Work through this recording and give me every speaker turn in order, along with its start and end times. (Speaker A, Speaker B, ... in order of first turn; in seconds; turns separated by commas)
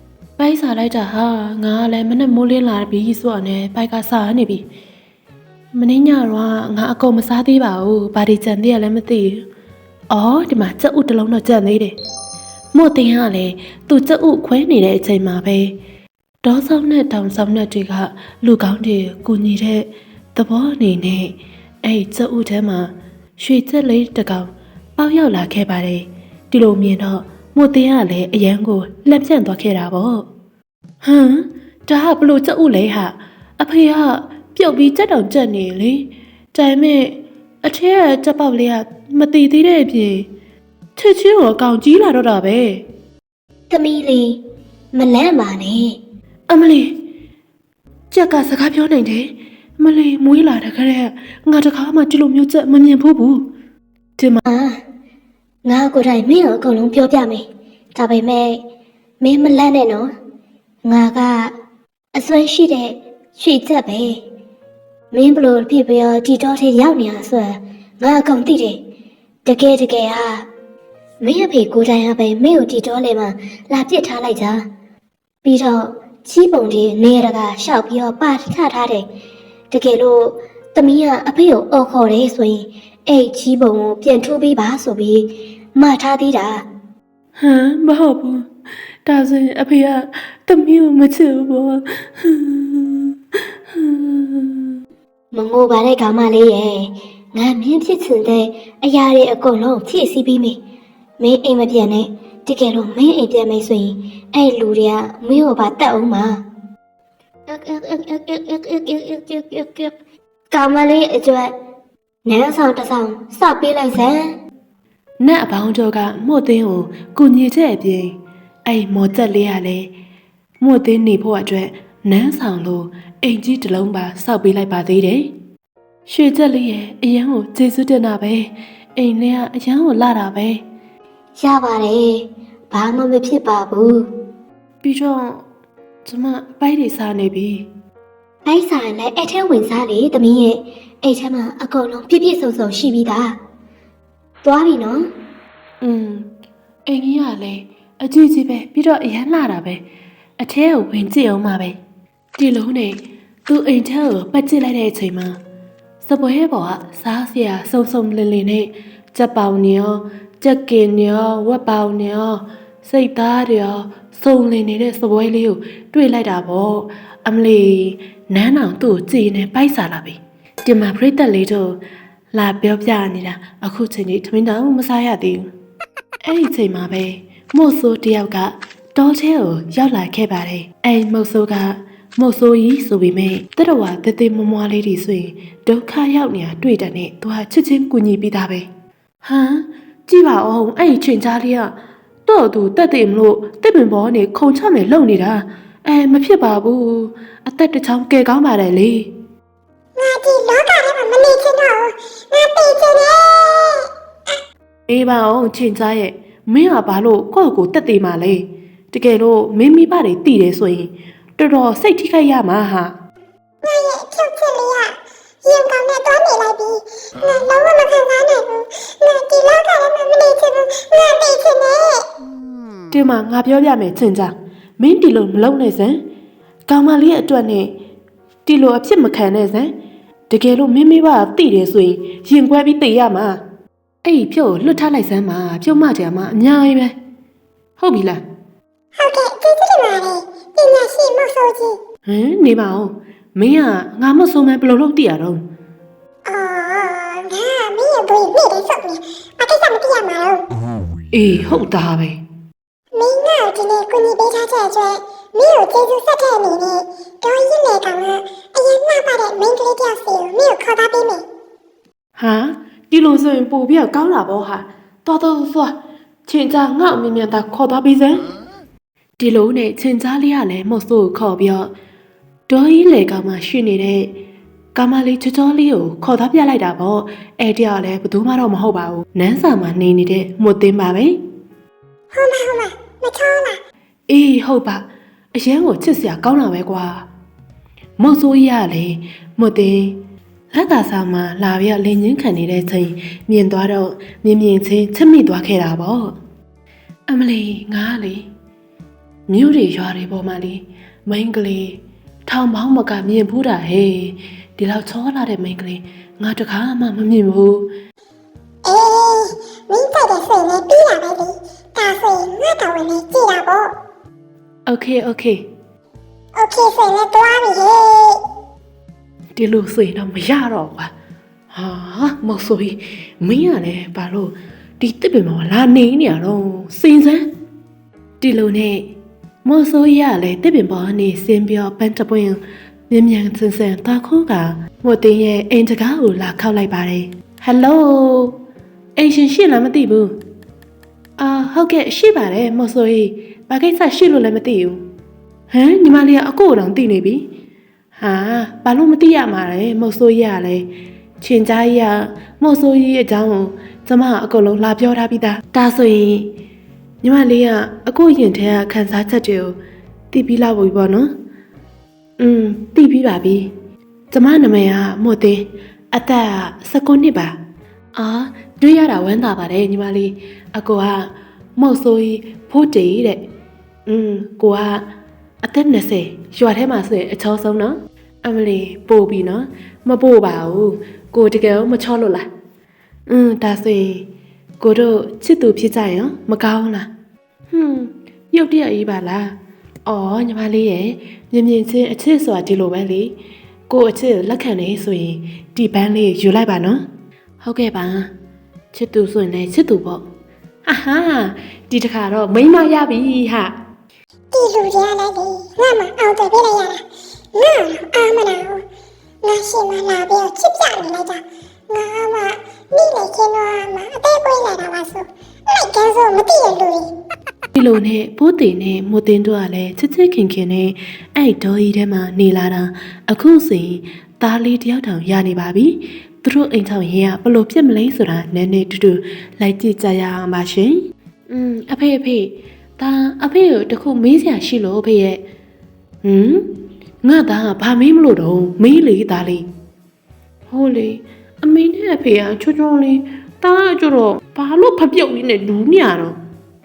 Speaker A: 0.4-4.7, Speaker A: 5.7-9.4, Speaker A: 10.1-12.0, Speaker A: 12.7-15.8, Speaker A: 16.4-30.3, Speaker A: 31.0-40.3, Speaker A: 41.0-42.8, Speaker B: 43.7-44.4, Speaker B: 44.9-46.0, Speaker A: 46.5-47.0, Speaker A: 48.1-53.4, Speaker A: 54.2-54.4, Speaker B: 54.5-54.8, Speaker B: 55.6-58.6, Speaker B: 59.2-60.1, Speaker B: 60.8-61.5, Speaker B: 62.1-64.2, Speaker B: 65.1-68.8, Speaker B: 69.5-70.5, Speaker B: 71.2-74.7, Speaker B: 75.4-79.1, Speaker B: 79.7-86.7, Speaker A: 87.4-88.5, Speaker A: 89.0-93.1, Speaker A: 93.7-94.7, Speaker B: 95.3-100.6, Speaker B: 101.2-106.4, Speaker B: 107.5-109.9, Speaker B: 110.5-111.5, Speaker B: 112.3-114.3, Speaker A: 115.2-119.9, Speaker A: 120.6-125.3, Speaker A: 126.0-130.6, Speaker B: 131.4-134.0, Speaker A: 134.8-135.4, Speaker A: 136.0-137.7, Speaker B: 138.5-143.4, Speaker B: 144.4-145.1, Speaker A: 145.8-146.3, Speaker A: 146.9-149.8, Speaker A: 150.4-151.8, Speaker A: 152.4-155.4, Speaker A: 156.0-171.8, Speaker A: 172.3-175.5, Speaker A: 176.2-188.7, Speaker A: 189.2-199.1, Speaker C: 200.0-204.4, Speaker A: 204.9-213.0, Speaker C: 213.6-222.1, Speaker A: 222.9-226.0, Speaker A: 226.7-227.7, Speaker A: 228.5-229.7, Speaker A: 230.3-233.4, Speaker A: 234.0-236.9, Speaker A: 237.8-238.2, Speaker C: 239.0-241.8, Speaker A: 242.1-245.4, Speaker C: 246.3-250.4, Speaker A: 251.1-252.2, Speaker C: 252.9-261.2, Speaker A: 262.1-268.2, Speaker A: 269.2-271.7, Speaker A: 272.5-274.2, Speaker A: 274.8-281.2, Speaker C: 282.1-283.6, Speaker A: 284.1-287.1, Speaker A: 288.0-290.0, Speaker A: 290.5-296.1, Speaker A: 297.1-298.3, Speaker A: 299.3-307.7, Speaker C: 308.6-313.7, Speaker A: 314.6-315.4, Speaker C: 316.4-318.2, Speaker A: 319.4-320.9, Speaker A: 321.5-327.2, Speaker A: 328.2-328.9, Speaker A: 329.4-338.4, Speaker A: 339.0-340.2, Speaker A: 341.2-344.8, Speaker A: 345.5-347.2, Speaker A: 348.0-350.7, Speaker A: 351.2-356.3, Speaker A: 357.0-359.6, Speaker A: 360.1-361.1, Speaker A: 362.2-363.5, Speaker A: 364.1-367.4, Speaker A: 367.9-373.2, Speaker A: 373.9-374.9, Speaker A: 375.4-382.3, Speaker A: 383.1-384.1, Speaker A: 384.6-386.9, Speaker A: 387.5-393.1, Speaker A: 393.7-396.8, Speaker A: 397.4-398.1, Speaker A: 398.7-400.1, Speaker A: 400.6-403.6, Speaker C: 404.3-406.8, Speaker C: 407.3-408.6, Speaker C: 409.2-416.9, Speaker A: 417.5-435.2, Speaker A: 436.0-436.5, Speaker A: 437.0-439.4, Speaker A: 440.5-446.1